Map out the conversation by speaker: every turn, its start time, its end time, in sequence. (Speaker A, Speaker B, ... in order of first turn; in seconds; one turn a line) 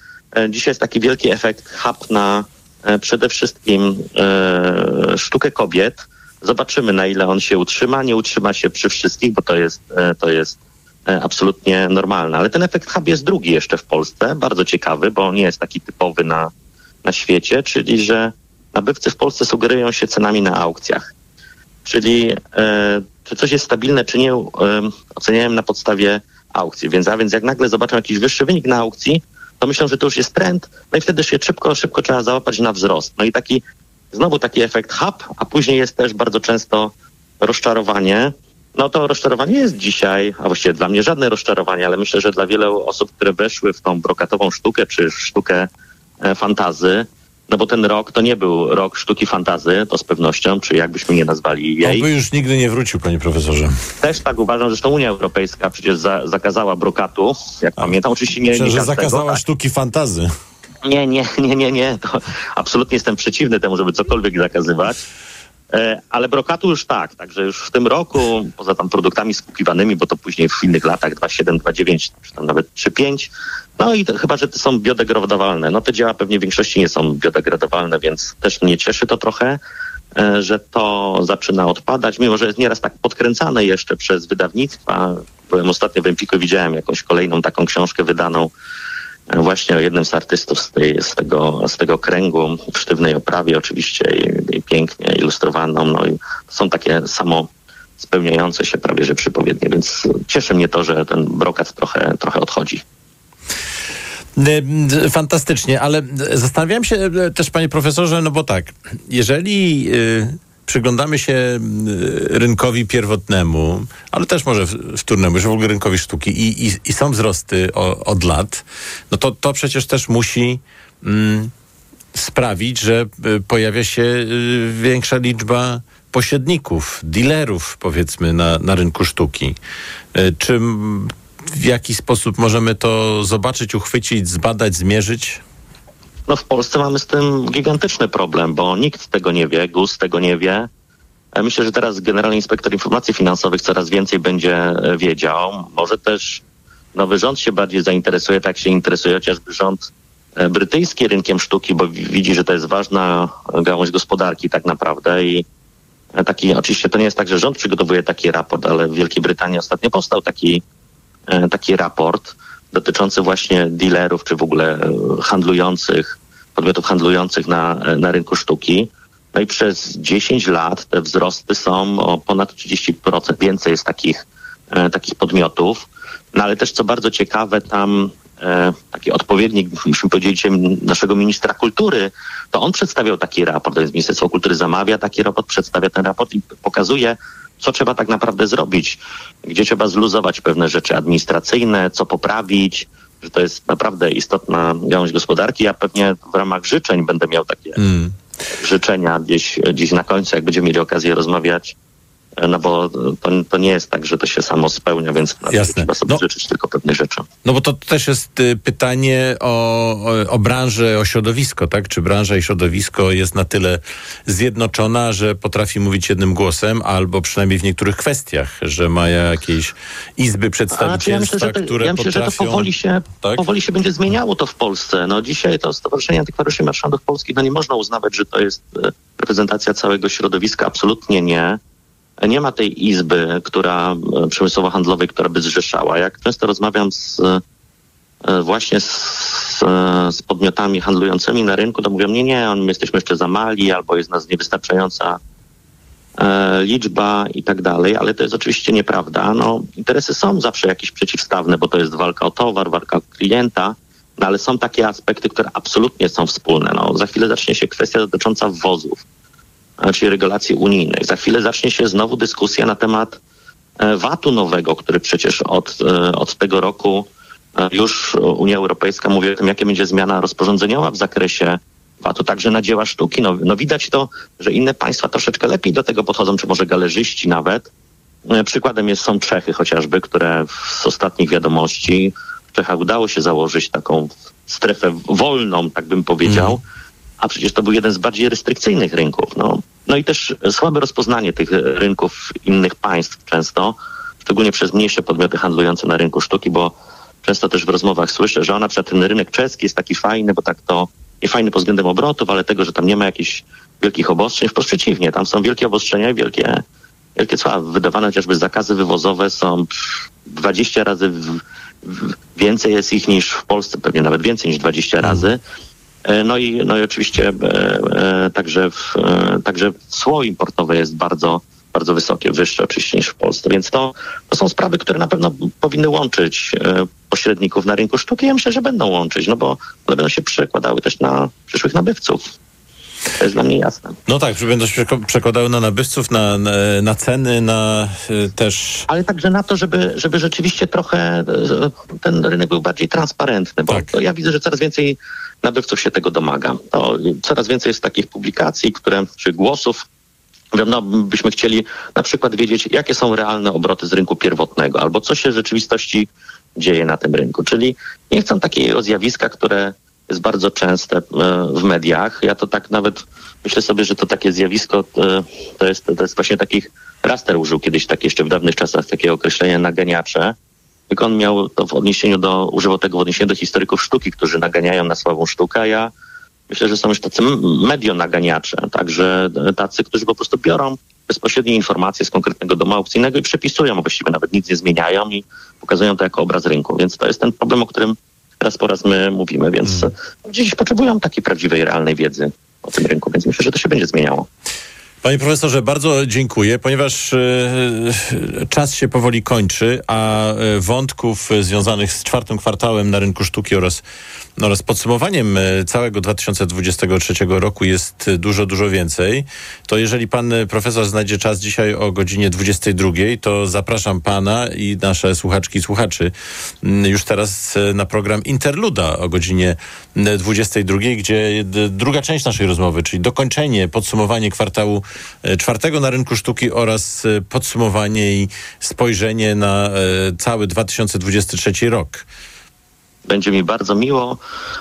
Speaker A: 0.4-10.6
Speaker A: 11.1-16.5
Speaker A: 17.0-21.1
Speaker A: 21.9-33.6
Speaker A: 34.1-45.7
Speaker A: 46.2-52.0
Speaker B: 51.8-53.8
Speaker A: 54.0-59.4
Speaker B: 58.5-60.3
Speaker A: 60.8-65.0
Speaker A: 65.7-73.3
Speaker A: 73.8-79.6
Speaker A: 80.2-88.5
Speaker A: 89.3-97.5
Speaker A: 98.0-102.8
Speaker B: 104.3-121.5
Speaker B: 122.1-129.6
Speaker B: 130.1-135.4
Speaker A: 136.3-140.7
Speaker A: 141.4-146.4
Speaker A: 146.9-155.4
Speaker A: 156.2-160.6
Speaker A: 161.3-174.2
Speaker A: 174.7-197.8
Speaker B: 197.8-198.1
Speaker A: 198.6-201.7
Speaker A: 202.4-207.2
Speaker B: 205.5-206.2
Speaker B: 207.4-223.4
Speaker A: 220.7-231.6
Speaker A: 232.2-237.4
Speaker A: 238.3-245.2
Speaker A: 246.2-259.0
Speaker A: 259.8-263.2
Speaker A: 263.8-277.7
Speaker A: 278.3-286.6
Speaker B: 286.3-286.6
Speaker A: 287.2-306.6
Speaker A: 307.1-309.7
Speaker A: 310.3-315.4
Speaker A: 316.1-332.2
Speaker A: 333.2-333.9
Speaker B: 334.1-338.9
Speaker A: 338.9-349.8
Speaker B: 343.7-343.9
Speaker A: 350.5-370.3
Speaker A: 370.9-375.9
Speaker A: 376.5-394.2
Speaker B: 395.0-403.8
Speaker B: 404.4-432.0
Speaker A: 433.1-434.2